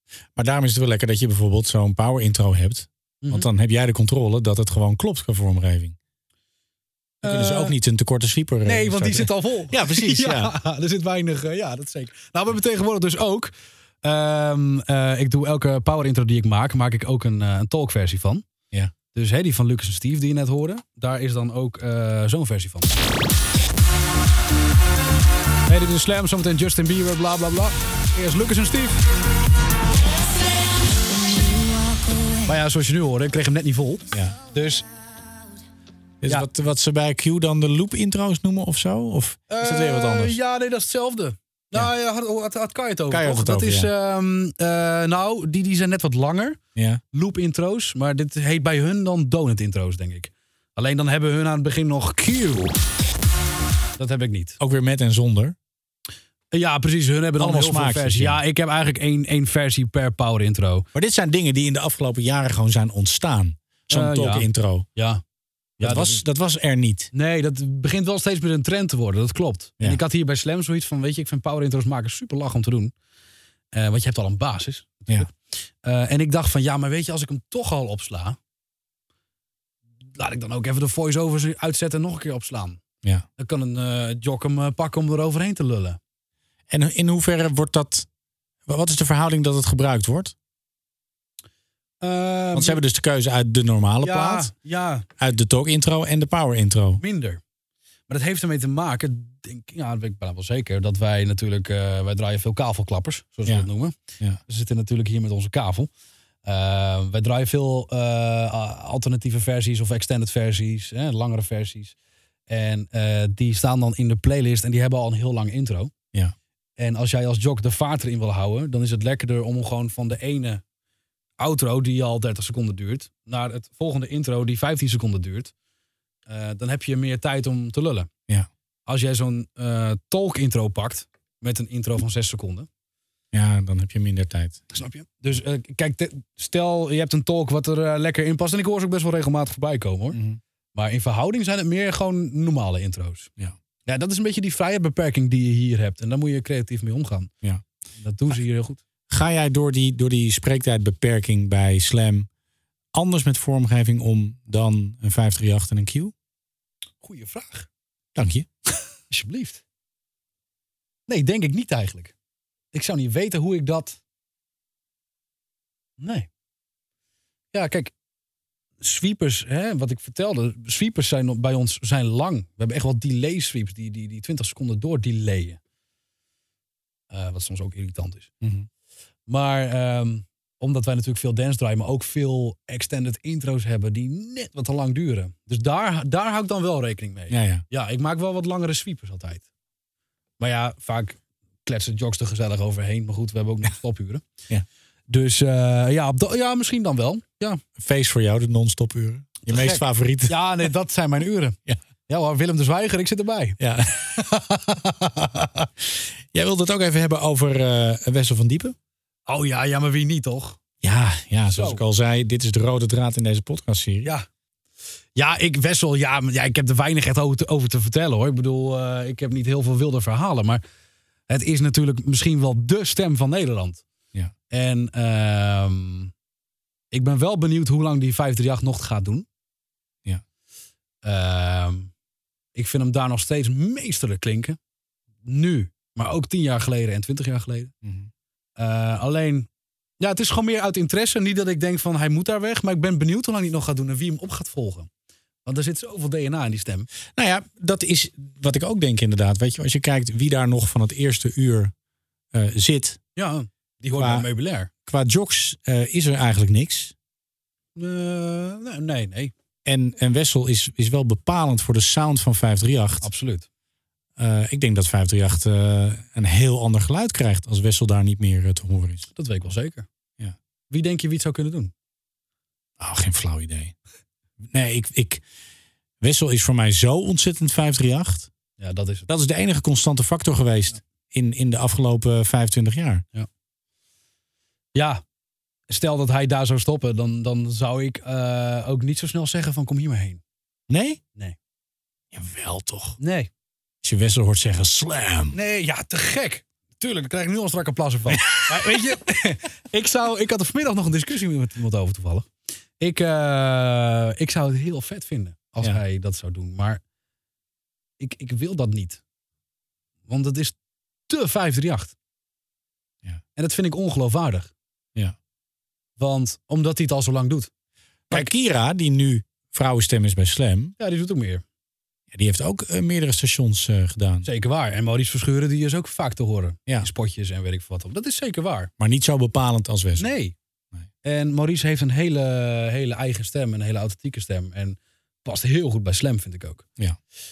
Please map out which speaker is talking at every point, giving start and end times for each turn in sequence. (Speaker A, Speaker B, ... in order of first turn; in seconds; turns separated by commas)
Speaker A: 0.4-6.0, Speaker B: 3.2-3.5, Speaker B: 7.2-7.7, Speaker A: 7.2-10.5, Speaker B: 8.7-13.5, Speaker B: 14.0-18.4, Speaker B: 19.1-22.9, Speaker B: 25.7-29.0, Speaker B: 32.5-34.9, Speaker A: 36.2-40.4, Speaker B: 39.5-46.6, Speaker A: 43.1-43.9, Speaker A: 46.8-47.0, Speaker B: 47.1-52.7, Speaker B: 54.0-54.6, Speaker A: 54.6-55.6, Speaker B: 56.5-60.9, Speaker A: 57.4-58.4, Speaker A: 60.9-64.9, Speaker B: 63.9-65.2, Speaker B: 65.8-66.2, Speaker A: 65.8-67.1, Speaker B: 67.1-72.9, Speaker B: 73.7-75.3, Speaker B: 75.8-78.4, Speaker B: 80.2-82.8, Speaker B: 83.4-86.0, Speaker A: 86.7-88.1, Speaker A: 88.7-90.3, Speaker B: 92.0-92.8, Speaker A: 92.5-94.5, Speaker B: 94.0-95.0, Speaker A: 95.2-97.0, Speaker B: 97.0-97.4, Speaker B: 98.1-105.9, Speaker B: 106.5-112.0, Speaker B: 112.5-115.9, Speaker B: 116.8-120.6, Speaker B: 121.4-125.5, Speaker B: 126.3-128.1, Speaker B: 128.9-132.7, Speaker A: 133.3-134.6, Speaker B: 134.7-140.2, Speaker A: 140.1-140.4, Speaker B: 140.8-143.3, Speaker B: 143.9-147.3, Speaker B: 148.0-148.8, Speaker A: 149.1-152.3, Speaker A: 152.9-156.1, Speaker B: 157.0-157.7, Speaker A: 158.2-158.5, Speaker B: 159.1-159.6, Speaker B: 161.1-162.1, Speaker B: 162.7-164.0, Speaker B: 166.0-166.3, Speaker B: 167.5-167.9, Speaker B: 168.8-175.6, Speaker B: 177.1-178.3, Speaker A: 178.4-178.7, Speaker B: 179.3-189.5, Speaker A: 187.3-187.6, Speaker B: 190.4-194.2, Speaker B: 195.1-197.6, Speaker A: 197.8-200.4, Speaker B: 199.4-203.6, Speaker A: 203.6-204.2, Speaker B: 204.2-205.2, Speaker A: 206.3-208.8, Speaker B: 209.3-210.6, Speaker A: 210.8-214.1, Speaker B: 211.5-211.8, Speaker B: 215.2-220.6, Speaker B: 221.3-223.8, Speaker B: 224.5-226.1, Speaker B: 226.9-229.3, Speaker B: 231.0-231.9, Speaker B: 232.6-234.6, Speaker B: 235.2-237.7, Speaker A: 237.8-238.1, Speaker B: 238.6-239.5, Speaker B: 240.0-244.9, Speaker B: 245.4-246.9, Speaker A: 247.2-251.7, Speaker A: 252.3-253.0, Speaker B: 253.2-254.7, Speaker A: 254.0-254.3, Speaker A: 254.8-256.9, Speaker B: 257.8-259.3, Speaker A: 259.6-263.1, Speaker B: 263.0-263.5, Speaker A: 264.2-269.1, Speaker B: 269.1-269.9, Speaker B: 270.7-271.7, Speaker A: 272.8-273.7, Speaker A: 274.5-275.2, Speaker A: 276.0-278.3, Speaker B: 278.6-279.1, Speaker A: 279.1-283.1, Speaker B: 284.8-285.0, Speaker B: 285.7-290.2, Speaker A: 290.7-291.0, Speaker A: 292.1-293.0, Speaker B: 293.0-293.3, Speaker A: 293.8-295.4, Speaker B: 295.3-302.3, Speaker A: 298.1-298.9, Speaker B: 302.8-306.8, Speaker B: 308.0-309.0, Speaker B: 310.1-310.6, Speaker B: 311.1-311.9, Speaker B: 313.4-314.5, Speaker B: 316.0-317.5, Speaker A: 318.1-320.8, Speaker B: 320.8-321.4, Speaker A: 322.1-324.3, Speaker B: 324.2-328.7, Speaker A: 328.8-330.1, Speaker B: 330.0-330.4, Speaker B: 331.0-336.7